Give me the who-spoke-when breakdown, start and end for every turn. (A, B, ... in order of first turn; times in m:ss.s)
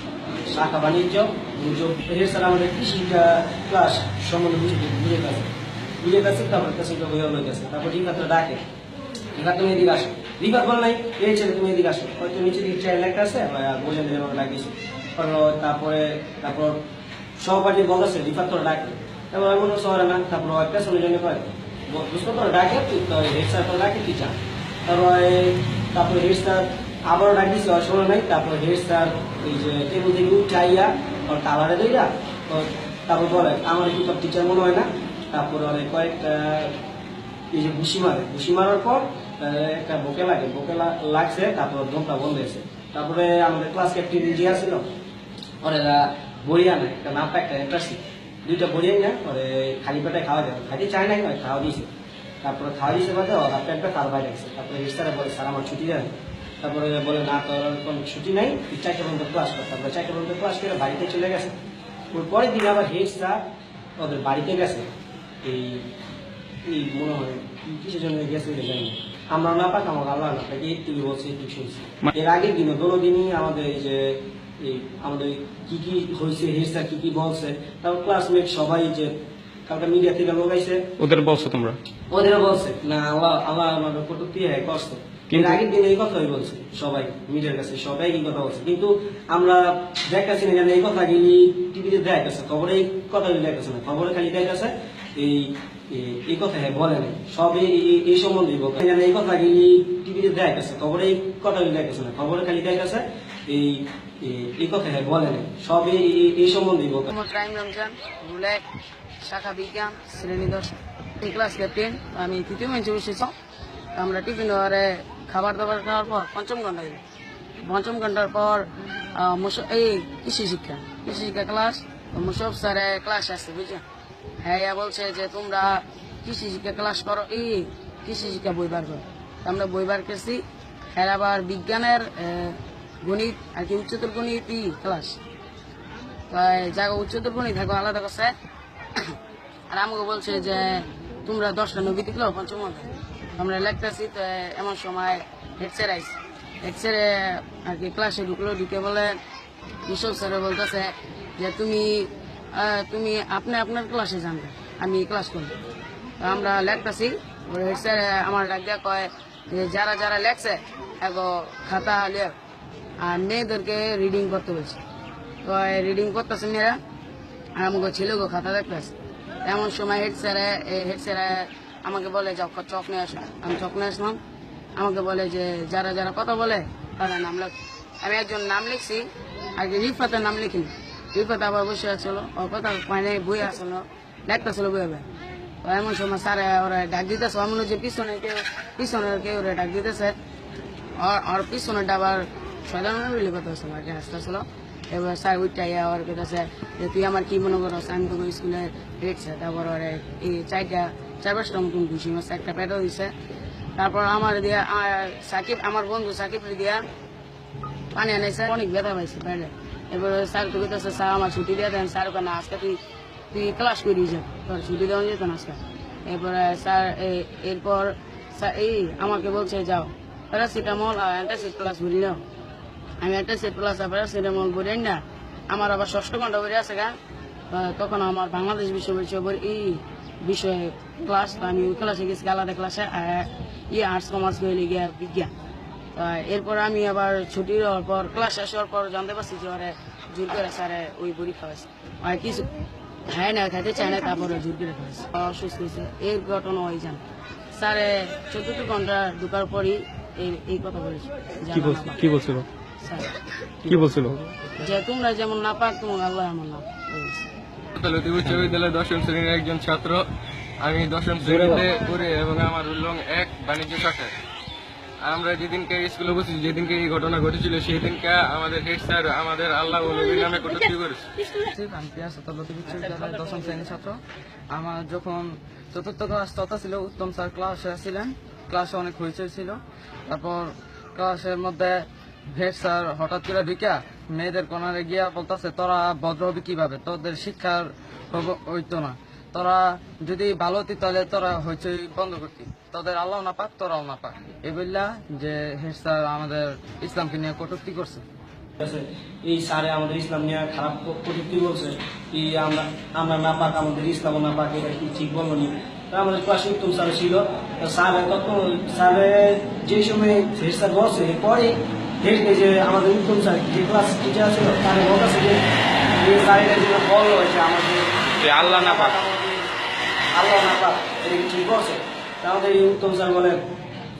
0:00.5-0:08.6 A
0:09.4-0:16.8 A
0:17.4-0:36.8 A
0:37.5-0:44.8 A
0:45.6-0:51.9 A
0:52.4-1:01.6 A
1:02.1-1:03.4 A
1:04.0-1:04.9 A
1:05.4-1:05.9 A
1:06.6-1:19.1 A
1:19.7-1:20.9 A
1:21.0-1:21.8 B
1:22.1-1:47.1 A
1:47.1-1:48.6 C
1:49.2-1:53.3 C
1:53.9-1:57.0 C
1:57.6-2:03.8 C
2:04.4-2:15.2 C
2:16.3-2:18.3 C
2:19.7-2:29.2 C
2:29.9-2:35.5 C
2:36.2-2:42.4 C
2:43.0-2:44.8 C
2:45.4-2:46.8 C
2:47.6-2:54.2 C
2:54.8-3:05.0 C
3:05.6-3:10.1 C
3:11.0-3:23.1 C
3:23.8-3:26.8 C
3:27.9-3:32.8 C
3:33.3-3:42.2 C
3:43.0-3:47.0 C
3:47.5-3:55.3 C
3:55.9-4:02.5 C
4:03.1-4:12.0 C
4:11.5-4:12.4 B
4:12.8-4:13.1 C
4:13.6-4:14.3 B
4:14.6-4:17.2 C
4:17.7-4:20.0 D
4:20.6-4:24.1 D
4:21.2-4:21.6 B
4:25.0-4:31.1 D
4:31.4-4:34.0 E
4:34.5-4:58.0 E
4:58.6-5:15.4 A
5:16.0-5:19.4 A
5:18.4-5:18.8 D
5:20.1-5:23.4 A